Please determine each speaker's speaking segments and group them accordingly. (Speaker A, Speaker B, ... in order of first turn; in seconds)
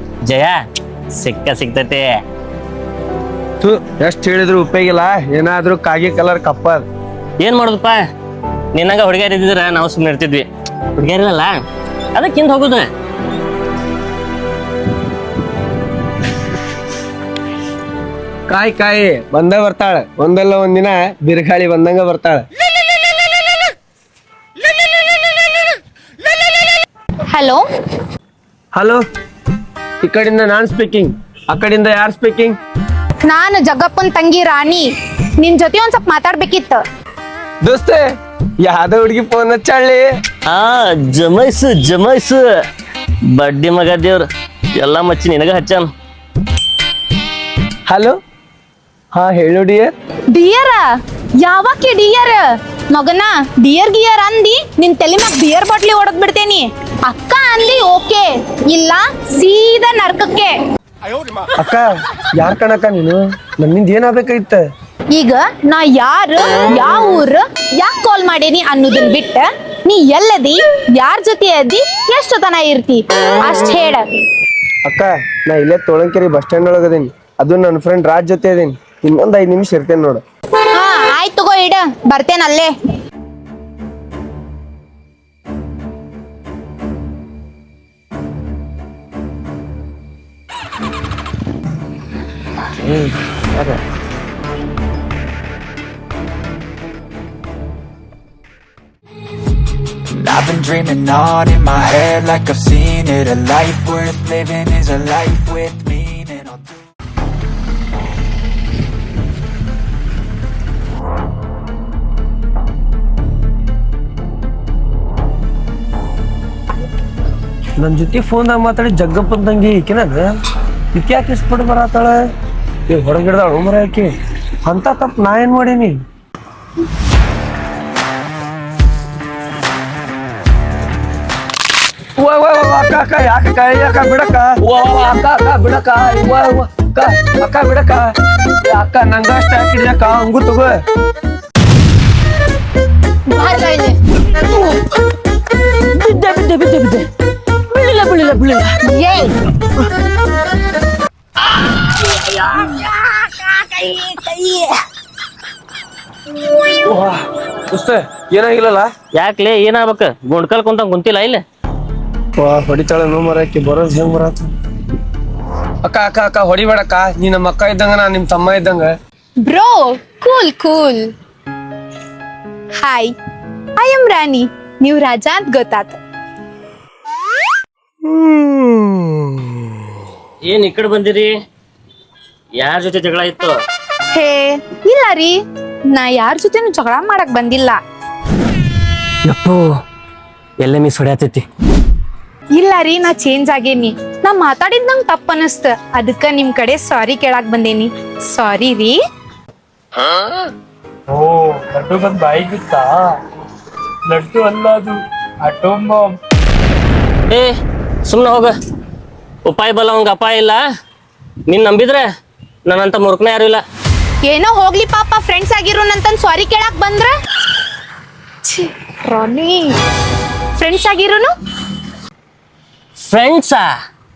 Speaker A: 0.3-0.6, 1.2-2.2, 7.4-8.1, 8.7-11.6, 12.2-12.9, 40.5-42.4, 43.4-44.2, 44.8-45.9, 146.1-147.0, 147.8-148.6, 159.1-161.4, 180.5-181.3, 182.6-183.6, 189.3-189.7, 190.6-191.4, 208.1-208.5, 209.5-210.6, 211.5-212.1, 212.7-213.6, 223.0-223.7
Speaker B: 3.6-6.9, 18.5-22.4, 28.8-29.0, 30.0-32.6, 37.6-38.0, 38.6-40.1, 47.9-48.2, 49.1-49.9, 61.6-64.6, 74.9-80.2, 117.8-120.3, 120.9-122.3, 122.9-124.1, 124.7-126.0, 132.2-138.1, 138.6-140.8, 156.8-158.9, 162.4-164.5, 165.8-168.9
Speaker C: 27.3-27.6, 33.3-34.9, 35.4-36.8, 50.3-50.9, 51.4-60.5, 65.1-74.1, 80.7-82.7, 143.3-144.0, 148.8-149.3, 169.4-171.1, 172.8-173.1, 173.8-176.0, 184.1-185.4, 185.9-187.8, 192.6-199.0, 214.2-217.1, 218.4-219.7, 220.6-221.3
Speaker D: 100.1-106.8
Speaker E: 201.1-203.0, 204.1-206.1